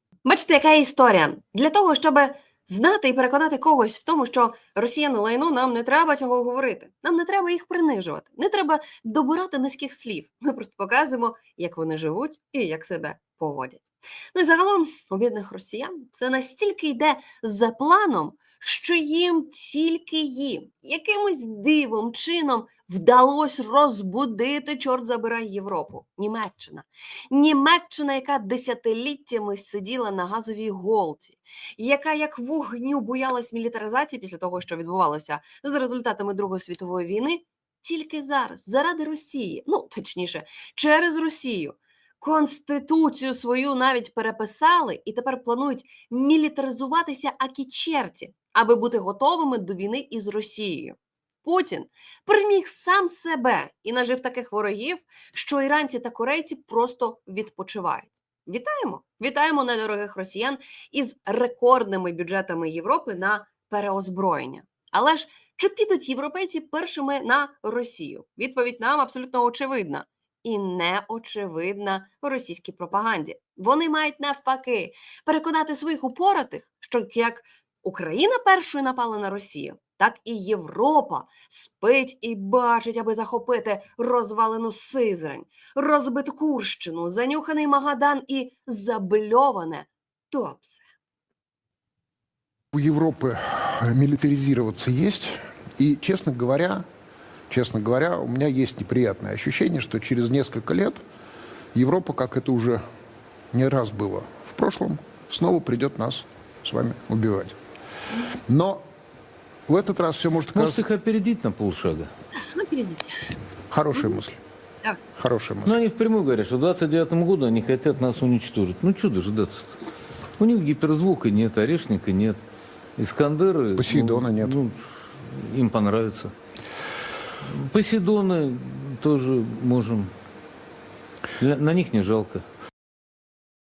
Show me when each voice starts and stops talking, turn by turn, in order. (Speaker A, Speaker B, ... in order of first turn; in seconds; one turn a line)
Speaker A: 0.2-90.8
Speaker B: 92.7-96.8
Speaker B: 97.5-101.0
Speaker B: 101.7-102.8
Speaker B: 103.5-107.6
Speaker B: 108.5-108.8
Speaker B: 109.7-110.8
Speaker C: 110.5-112.1
Speaker A: 112.4-113.1
Speaker B: 113.7-114.4
Speaker B: 115.2-115.8
Speaker C: 115.6-119.7
Speaker C: 120.4-122.4
Speaker C: 123.0-126.3
Speaker B: 123.8-124.5
Speaker C: 127.5-130.1
Speaker C: 131.4-132.4